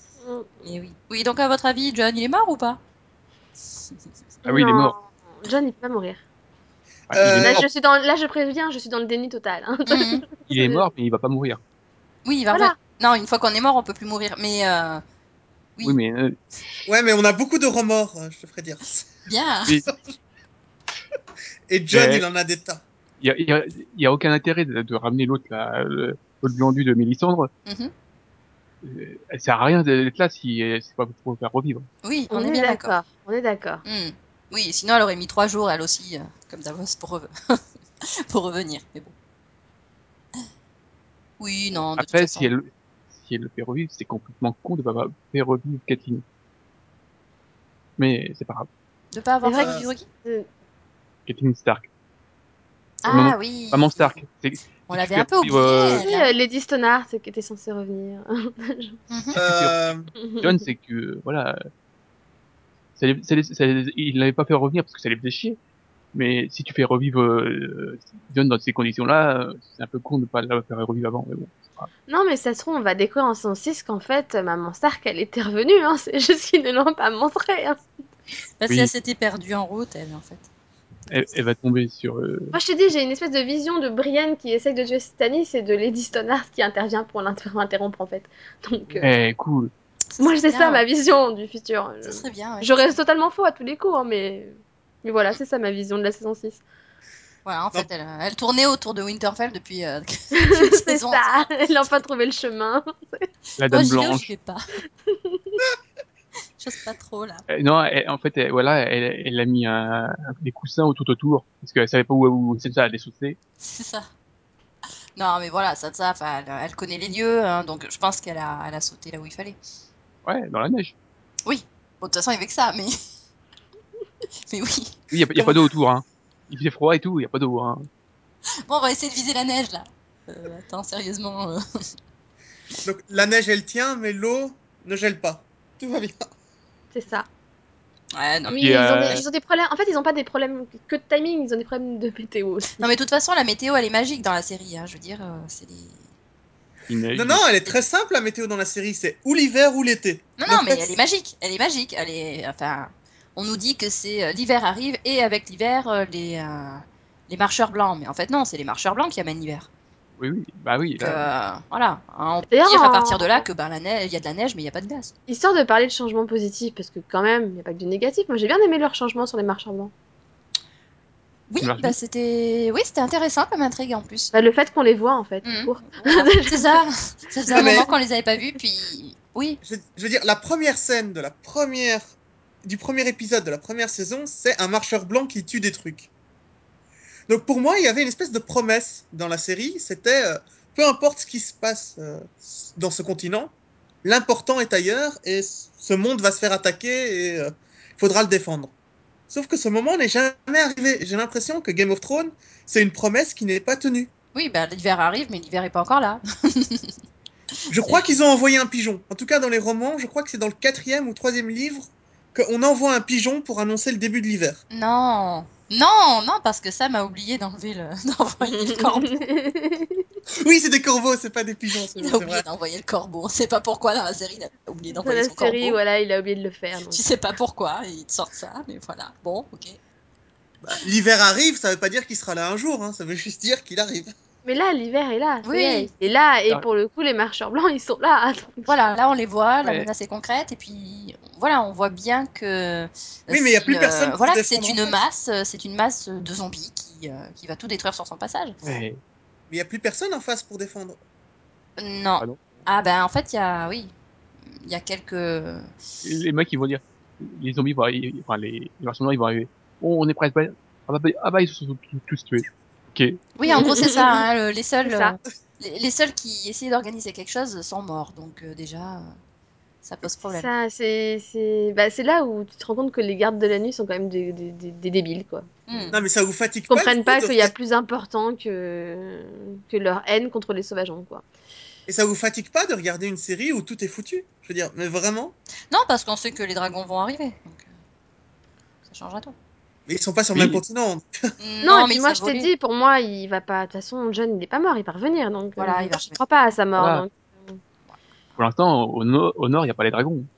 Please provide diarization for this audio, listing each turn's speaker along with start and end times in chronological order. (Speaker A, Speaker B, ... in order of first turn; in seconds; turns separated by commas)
Speaker A: 0.2-0.6, Speaker B: 0.6-2.8, Speaker A: 4.4-6.2, Speaker C: 4.5-4.9, Speaker C: 7.1-7.7, Speaker D: 7.1-7.6, Speaker A: 7.3-10.9, Speaker B: 9.9-10.2, Speaker C: 10.5-11.6, Speaker B: 12.2-15.0, Speaker C: 15.8-16.8, Speaker D: 16.9-19.0, Speaker B: 19.2-19.8, Speaker D: 21.7-22.8, Speaker C: 21.9-22.2, Speaker C: 23.2-27.5, Speaker B: 27.6-27.9, Speaker C: 28.8-31.9, Speaker B: 32.0-32.9, Speaker A: 32.3-33.8, Speaker B: 33.8-39.1, Speaker B: 41.4-42.5, Speaker C: 42.0-46.2, Speaker C: 48.0-48.7, Speaker B: 49.1-50.0, Speaker A: 49.4-50.5, Speaker D: 49.6-49.8, Speaker C: 51.3-51.9, Speaker B: 53.0-54.1, Speaker C: 53.1-56.0, Speaker B: 54.9-56.3, Speaker A: 56.0-59.0, Speaker B: 59.1-59.4, Speaker D: 59.3-60.1, Speaker C: 59.3-59.7, Speaker A: 60.2-60.6, Speaker C: 60.4-61.7, Speaker C: 63.0-65.6, Speaker C: 66.1-71.9, Speaker A: 72.1-77.8, Speaker B: 78.6-80.5, Speaker C: 81.1-82.5, Speaker A: 82.5-89.1, Speaker C: 88.9-89.7, Speaker B: 90.1-90.8, Speaker A: 90.2-96.6, Speaker B: 92.0-93.0, Speaker B: 97.4-101.9, Speaker A: 100.4-103.3, Speaker C: 103.6-104.3, Speaker B: 103.7-104.6, Speaker A: 105.1-105.6, Speaker B: 106.6-107.4, Speaker C: 107.5-113.4, Speaker B: 113.6-114.1, Speaker B: 115.2-119.6, Speaker C: 120.2-120.9, Speaker B: 121.5-123.0, Speaker B: 124.5-125.0, Speaker C: 125.1-127.9, Speaker B: 128.6-131.6, Speaker D: 132.8-136.3, Speaker A: 136.9-137.3, Speaker B: 138.1-139.2, Speaker A: 138.5-142.8, Speaker C: 138.6-139.2, Speaker B: 142.8-146.1, Speaker C: 146.9-147.4, Speaker D: 147.1-150.9, Speaker B: 150.4-159.7, Speaker C: 160.2-161.3, Speaker B: 161.0-165.1, Speaker A: 162.5-163.4, Speaker A: 165.3-169.9, Speaker B: 171.5-174.3, Speaker C: 171.6-171.9, Speaker A: 174.3-176.8, Speaker B: 175.4-179.6, Speaker A: 177.4-177.9, Speaker D: 177.5-177.9, Speaker D: 179.6-182.0, Speaker D: 182.6-186.1, Speaker D: 187.3-193.5, Speaker D: 194.0-198.7, Speaker D: 199.3-204.1, Speaker B: 204.3-206.9, Speaker D: 207.7-214.6, Speaker B: 207.8-208.2, Speaker B: 214.7-219.2, Speaker A: 218.4-220.0, Speaker D: 220.4-222.4, Speaker B: 221.9-225.8, Speaker A: 224.9-227.1, Speaker B: 226.9-229.8, Speaker D: 230.6-234.1, Speaker A: 234.4-238.7, Speaker B: 235.4-235.9, Speaker B: 238.7-248.6, Speaker D: 243.3-245.0, Speaker C: 248.6-249.0, Speaker D: 249.5-251.0, Speaker B: 251.8-253.9, Speaker C: 252.2-252.6, Speaker B: 254.5-255.7, Speaker C: 256.0-263.2, Speaker B: 263.4-269.1, Speaker A: 263.5-264.2, Speaker A: 264.8-265.1, Speaker B: 269.8-270.5, Speaker A: 270.1-275.9, Speaker B: 275.7-276.0, Speaker D: 275.9-277.5, Speaker A: 276.7-281.2, Speaker D: 281.9-285.3, Speaker B: 285.7-287.7, Speaker B: 288.9-289.3, Speaker D: 289.9-291.1, Speaker C: 290.3-290.6, Speaker B: 291.4-292.5, Speaker A: 291.6-297.6, Speaker B: 295.6-296.2, Speaker C: 296.8-297.1, Speaker C: 298.4-300.3